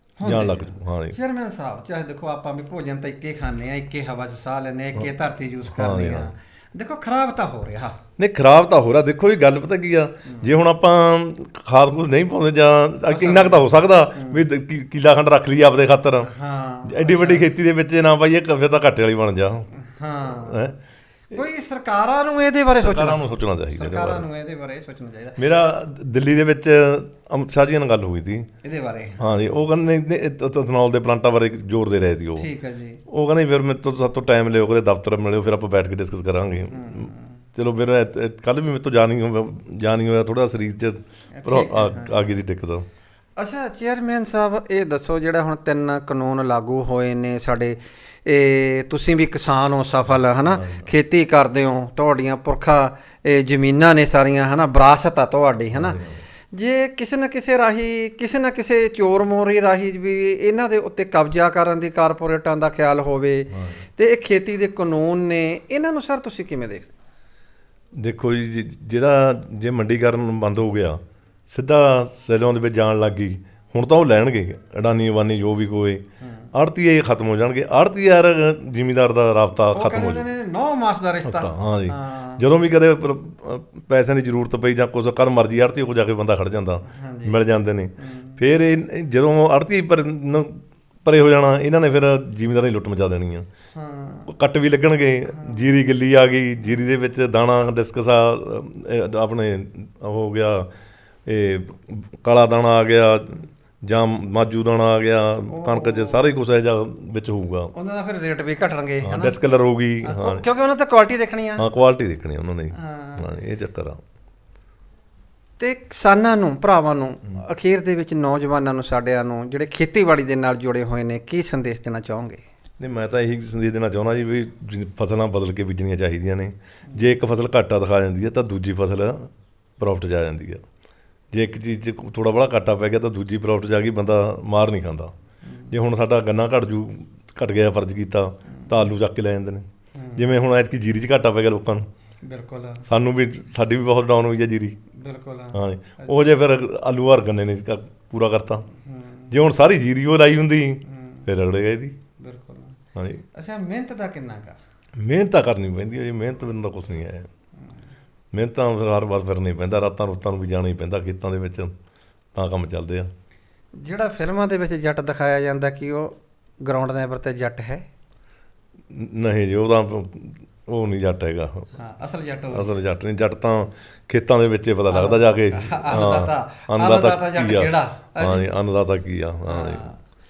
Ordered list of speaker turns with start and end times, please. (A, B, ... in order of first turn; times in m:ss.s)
0:00.2-0:08.0 A
0:00.2-0:01.2 B
0:05.6-0:06.3 B
0:08.2-0:16.3 B
0:13.1-0:14.4 A
0:16.2-0:17.5 A
0:16.9-0:19.7 B
0:19.8-0:20.6 A
0:20.3-0:20.8 B
0:21.3-0:25.4 A
0:22.8-0:24.2 B
0:25.4-0:28.5 B
0:28.6-0:29.3 A
0:29.2-0:32.5 B
0:32.4-0:33.0 A
0:33.1-0:42.9 B
0:36.7-0:37.3 A
0:41.4-0:42.4 A
0:43.4-0:56.0 A
0:50.2-0:50.9 B
0:55.7-0:56.2 B
0:56.5-1:06.9 A
1:03.5-1:03.8 B
1:08.0-1:16.0 B
1:16.2-1:16.5 A
1:16.5-1:20.2 B
1:19.7-1:22.4 A
1:21.2-1:33.5 B
1:26.9-1:27.4 A
1:28.0-1:28.4 A
1:33.7-1:34.3 A
1:34.3-1:40.7 B
1:35.3-1:35.7 A
1:41.2-1:47.7 B
1:45.5-1:46.3 A
1:47.7-1:49.4 A
1:49.0-1:50.4 B
1:50.0-1:51.6 A
1:51.6-1:54.0 B
1:52.7-1:53.2 A
1:55.6-2:02.4 A
2:02.8-2:10.6 B
2:11.3-2:15.1 B
2:15.4-2:15.7 A
2:15.7-2:21.9 B
2:20.0-2:20.3 A
2:22.2-2:22.8 A
2:22.9-2:24.8 B
2:24.9-2:26.4 A
2:25.5-2:28.6 B
2:28.9-2:29.3 A
2:29.3-2:31.9 B
2:30.9-2:31.2 A
2:32.2-2:32.8 A
2:32.9-2:33.2 B
2:33.3-2:34.6 A
2:35.0-2:37.3 B
2:38.3-2:41.7 B
2:42.4-2:43.1 B
2:43.8-2:47.8 A
2:48.9-2:51.7 B
2:51.8-2:52.7 A
2:52.5-2:59.9 B
2:54.9-2:58.4 A
2:59.4-3:00.0 A